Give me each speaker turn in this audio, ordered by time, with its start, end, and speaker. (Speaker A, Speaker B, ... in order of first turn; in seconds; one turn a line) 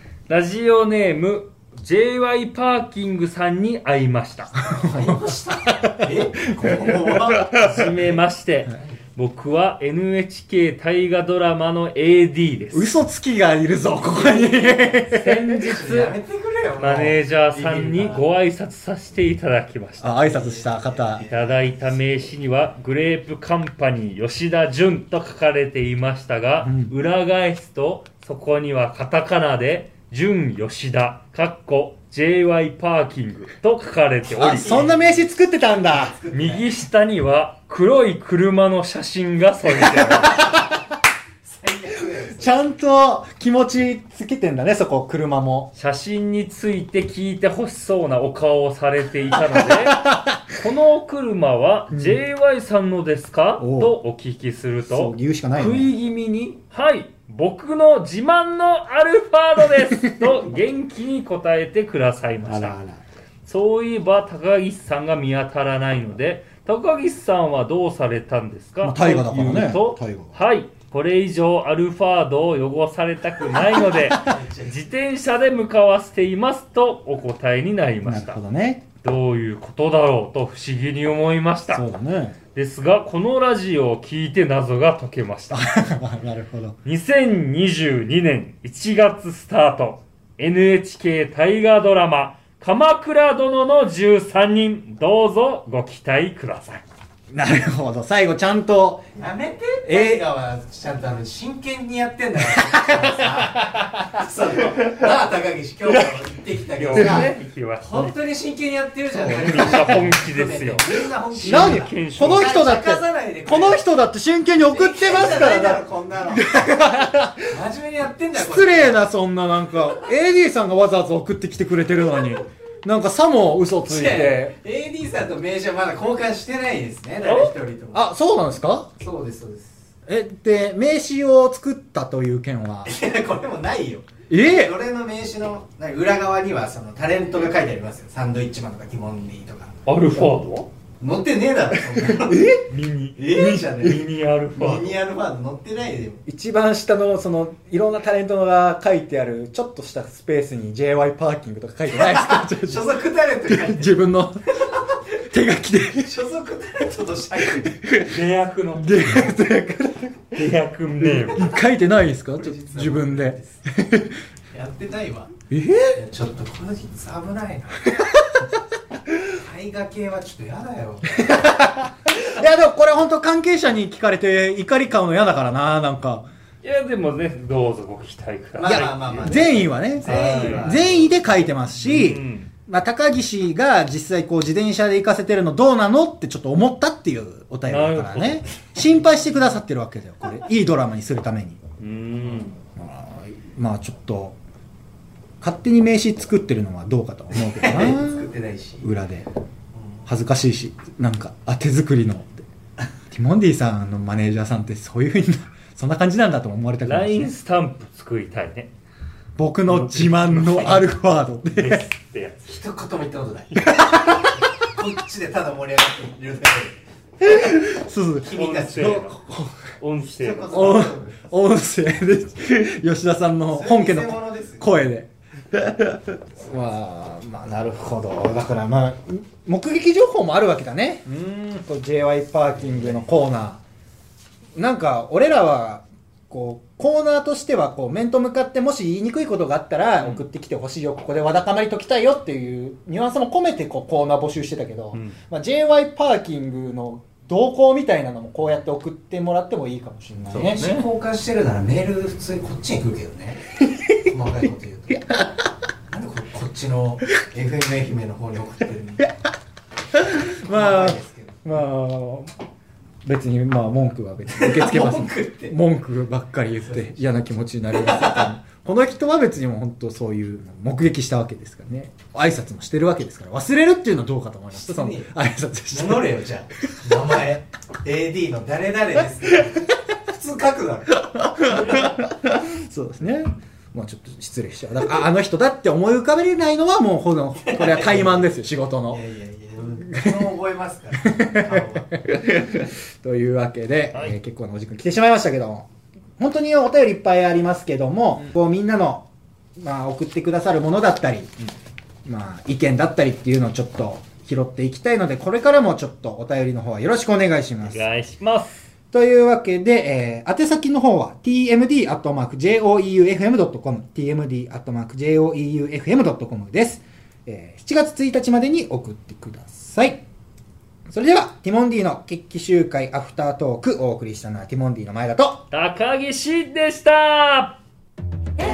Speaker A: 0.3-4.7
Speaker B: 4.6-7.6
Speaker C: 4.7-8.2
Speaker A: 7.5-12.9
Speaker B: 12.7-15.6
Speaker A: 14.0-16.2
Speaker C: 15.6-18.2
Speaker A: 16.8-20.4
Speaker B: 20.0-21.3
Speaker C: 20.3-22.0
Speaker A: 21.2-34.9
Speaker B: 26.6-26.9
Speaker C: 34.4-36.7
Speaker B: 34.4-36.2
Speaker A: 36.3-40.6
Speaker B: 39.6-40.8
Speaker C: 41.5-42.7
Speaker B: 42.1-45.7
Speaker A: 45.7-50.0
Speaker B: 49.5-50.4
Speaker A: 50.6-62.8
Speaker B: 51.9-52.2
Speaker B: 53.6-54.0
Speaker B: 54.8-55.9
Speaker B: 59.6-60.5
Speaker B: 62.4-63.0
Speaker A: 63.5-78.4
Speaker B: 68.8-70.4
Speaker B: 73.4-74.4
Speaker C: 74.2-74.8
Speaker B: 78.0-78.8
Speaker A: 79.0-81.8
Speaker B: 81.7-82.4
Speaker A: 82.5-85.7
Speaker B: 85.5-86.8
Speaker A: 86.8-96.8
Speaker B: 97.3-99.1
Speaker C: 99.2-113.9
Speaker B: 99.8-100.3
Speaker B: 102.5-104.9
Speaker B: 105.9-106.1
Speaker A: 106.8-108.2
Speaker B: 106.9-107.3
Speaker B: 109.1-110.1
Speaker A: 109.3-112.6
Speaker B: 111.4-117.6
Speaker C: 114.7-116.7
Speaker C: 117.5-119.0
Speaker B: 118.3-124.6
Speaker C: 123.8-128.1
Speaker A: 127.2-127.5
Speaker B: 127.9-128.9
Speaker C: 129.0-129.8
Speaker B: 130.1-132.9
Speaker C: 132.8-139.8
Speaker B: 134.3-134.8
Speaker A: 139.9-140.7
Speaker C: 141.0-142.5
Speaker B: 141.8-142.7
Speaker A: 142.7-145.0
Speaker C: 143.2-146.2
Speaker B: 143.3-144.0
Speaker B: 146.3-154.5
Speaker C: 151.9-154.0
Speaker B: 155.3-156.1
Speaker C: 156.0-157.8
Speaker B: 157.6-158.2
Speaker A: 158.0-159.4
Speaker B: 158.8-160.3
Speaker A: 160.3-161.5
Speaker B: 161.0-164.2
Speaker C: 162.3-163.6
Speaker C: 164.5-165.3
Speaker B: 165.5-166.0
Speaker C: 165.9-168.1
Speaker B: 168.0-168.4
Speaker C: 169.4-171.2
Speaker B: 171.1-176.3
Speaker A: 176.6-179.5
Speaker C: 178.6-181.1
Speaker B: 178.6-191.6
Speaker A: 180.1-181.2
Speaker A: 181.8-182.5
Speaker A: 187.7-188.6
Speaker A: 191.8-192.6
Speaker B: 192.8-194.4
Speaker B: 195.4-199.3
Speaker C: 197.3-198.9
Speaker B: 200.1-202.5
Speaker B: 203.1-207.3
Speaker A: 206.8-208.7
Speaker B: 209.4-211.8
Speaker A: 209.7-210.9
Speaker A: 211.5-212.6
Speaker C: 212.4-213.7
Speaker B: 213.5-214.4
Speaker C: 214.4-216.8
Speaker B: 217.2-219.7
Speaker C: 218.2-219.1
Speaker A: 218.3-219.2
Speaker A: 219.8-220.9
Speaker C: 220.2-221.2
Speaker B: 220.5-233.6
Speaker C: 223.5-224.7
Speaker C: 232.6-233.1
Speaker B: 234.6-250.6
Speaker A: 240.0-240.3
Speaker A: 250.3-250.9
Speaker C: 250.3-253.5
Speaker B: 253.6-254.0
Speaker C: 254.1-255.3
Speaker C: 255.9-259.1
Speaker B: 259.9-262.3
Speaker C: 260.3-261.5
Speaker B: 263.1-276.2
Speaker C: 264.3-265.6
Speaker C: 266.5-267.1
Speaker C: 267.7-268.3
Speaker C: 274.5-275.1
Speaker C: 275.7-281.9
Speaker B: 281.1-289.0
Speaker C: 287.4-288.3
Speaker C: 288.9-292.0
Speaker B: 289.9-290.3
Speaker B: 290.9-295.7
Speaker B: 296.2-301.4
Speaker B: 302.1-307.9
Speaker A: 307.6-308.7
Speaker B: 308.9-320.0
Speaker B: 320.9-325.5
Speaker A: 325.5-327.6